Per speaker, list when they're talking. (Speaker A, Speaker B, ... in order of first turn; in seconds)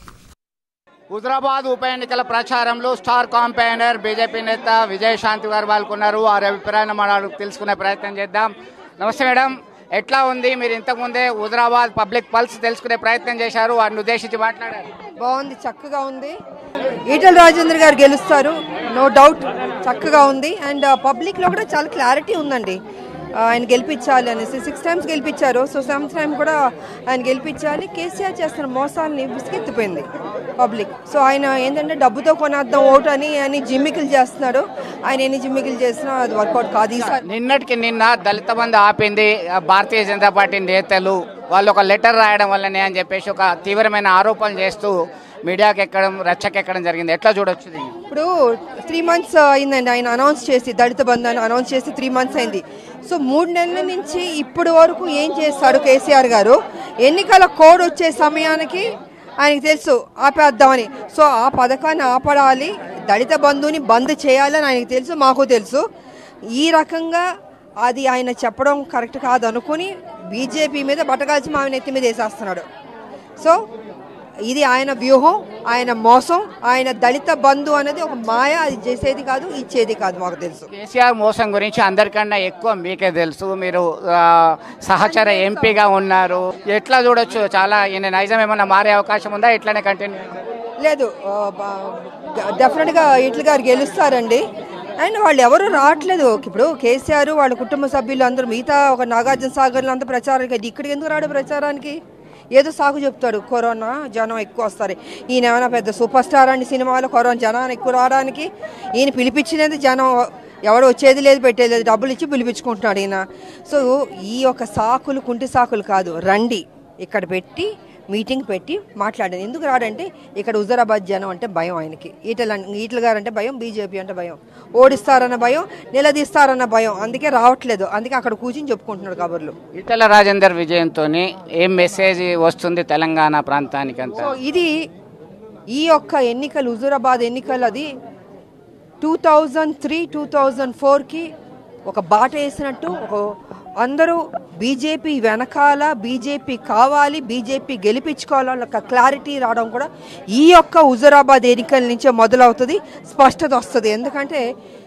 Speaker A: 1.1-14.9, 37.2-48.0, 80.7-90.2, 129.8-134.3
Speaker B: 15.2-16.4, 17.1-22.8, 23.4-26.6, 27.1-30.1, 30.6-37.2, 48.1-58.9, 59.4-65.8, 66.5-67.3, 67.8-72.7, 74.5-80.7, 90.8-94.4, 95.0-102.0, 102.5-129.5, 134.2-134.7, 135.7-137.9, 139.0-141.3, 141.9-143.3, 143.8-154.4